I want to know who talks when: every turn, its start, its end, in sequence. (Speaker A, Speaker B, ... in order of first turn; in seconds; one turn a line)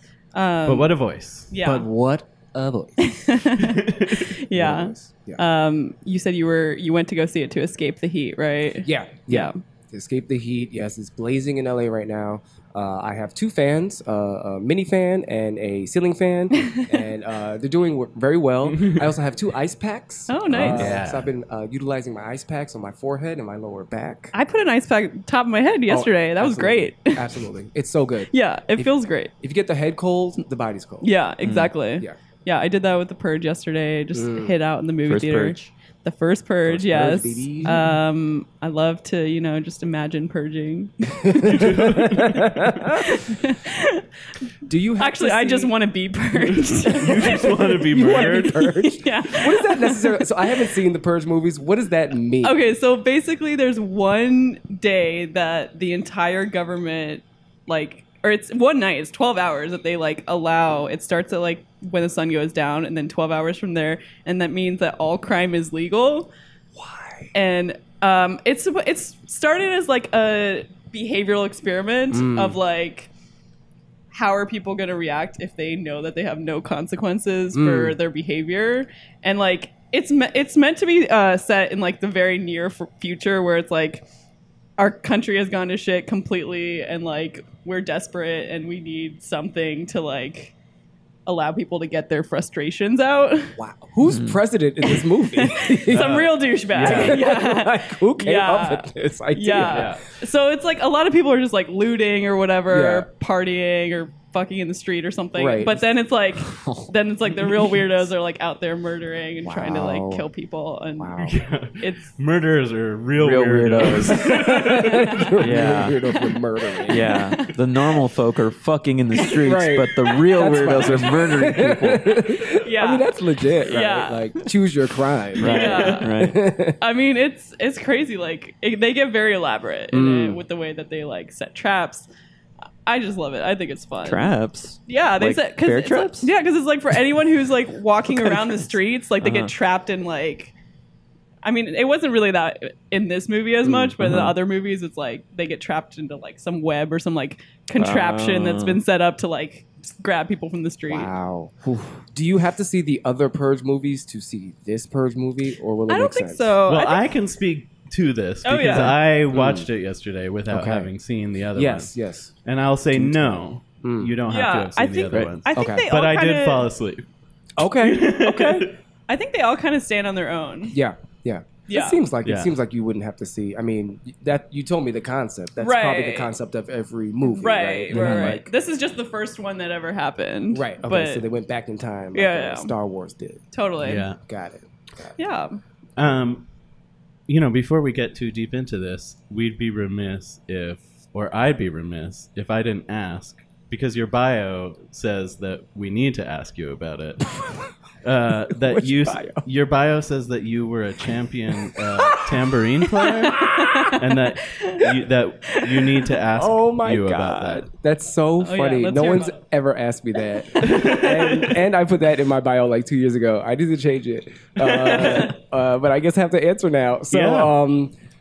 Speaker A: 0.3-0.9
Speaker B: 0.7-1.5
Speaker A: 1.5-1.9
Speaker C: 1.6-3.3
Speaker A: 3.0-9.6
Speaker B: 3.6-4.2
Speaker C: 4.5-5.4
Speaker C: 8.8-24.3
Speaker A: 16.6-16.9
Speaker B: 18.7-19.1
Speaker A: 20.3-21.0
Speaker B: 20.5-21.3
Speaker A: 24.3-27.3
Speaker C: 25.9-31.1
Speaker A: 28.3-29.3
Speaker A: 31.0-41.8
Speaker D: 31.4-31.7
Speaker C: 34.1-34.5
Speaker D: 35.0-35.7
Speaker C: 36.6-37.9
Speaker C: 41.2-43.1
Speaker B: 41.5-42.7
Speaker A: 42.9-44.0
Speaker C: 44.6-45.7
Speaker A: 45.0-50.5
Speaker B: 46.7-48.7
Speaker C: 47.1-52.6
Speaker A: 52.4-66.3
Speaker C: 66.7-67.3
Speaker A: 67.3-73.1
Speaker C: 72.1-72.6
Speaker A: 74.1-84.0
Speaker C: 77.5-78.0
Speaker A: 84.8-90.5
Speaker A: 91.3-93.5
Speaker C: 93.6-100.0
Speaker D: 94.0-94.4
Speaker A: 94.9-112.1
Speaker B: 95.9-97.2
Speaker B: 99.7-100.0
Speaker C: 102.7-103.1
Speaker C: 105.3-105.9
Speaker C: 109.4-110.3
Speaker C: 111.0-111.4
Speaker B: 111.2-115.3
Speaker D: 113.2-114.3
Speaker C: 114.1-117.1
Speaker D: 115.4-116.0
Speaker D: 116.9-122.1
Speaker A: 117.0-117.5
Speaker C: 119.4-126.8
Speaker A: 122.6-123.1
Speaker A: 123.6-124.4
Speaker D: 125.4-126.4
Speaker A: 125.4-126.1
Speaker A: 126.8-132.1
Speaker C: 129.9-130.4
Speaker A: 132.8-134.3
Speaker D: 134.0-136.3
Speaker A: 134.8-140.5
Speaker D: 138.1-138.7
Speaker D: 139.2-139.5
Speaker A: 141.4-151.1
Speaker D: 144.0-144.3
Speaker D: 147.8-148.8
Speaker C: 150.9-156.5
Speaker A: 155.9-157.0
Speaker B: 156.7-161.9
Speaker A: 158.4-158.9
Speaker C: 158.7-159.7
Speaker C: 160.5-160.9
Speaker C: 161.5-162.3
Speaker B: 162.4-167.1
Speaker C: 162.9-164.1
Speaker A: 164.3-166.7
Speaker C: 165.5-165.9
Speaker C: 167.6-168.7
Speaker B: 167.8-168.7
Speaker A: 169.1-170.8
Speaker C: 170.7-178.5
Speaker A: 171.7-172.0
Speaker B: 172.2-172.5
Speaker A: 175.6-176.3
Speaker A: 177.3-181.2
Speaker C: 180.5-183.5
Speaker A: 182.1-182.7
Speaker A: 183.5-184.1
Speaker B: 183.8-184.2
Speaker C: 184.2-185.2
Speaker A: 185.2-185.6
Speaker B: 186.0-186.5
Speaker B: 187.3-197.4
Speaker B: 198.0-207.7
Speaker C: 198.5-199.4
Speaker C: 201.7-202.3
Speaker C: 203.0-203.9
Speaker A: 203.4-203.9
Speaker A: 204.6-204.8
Speaker C: 206.3-217.9
Speaker A: 208.4-209.4
Speaker A: 210.6-210.9
Speaker B: 210.7-211.5
Speaker B: 214.6-215.2
Speaker B: 217.1-217.6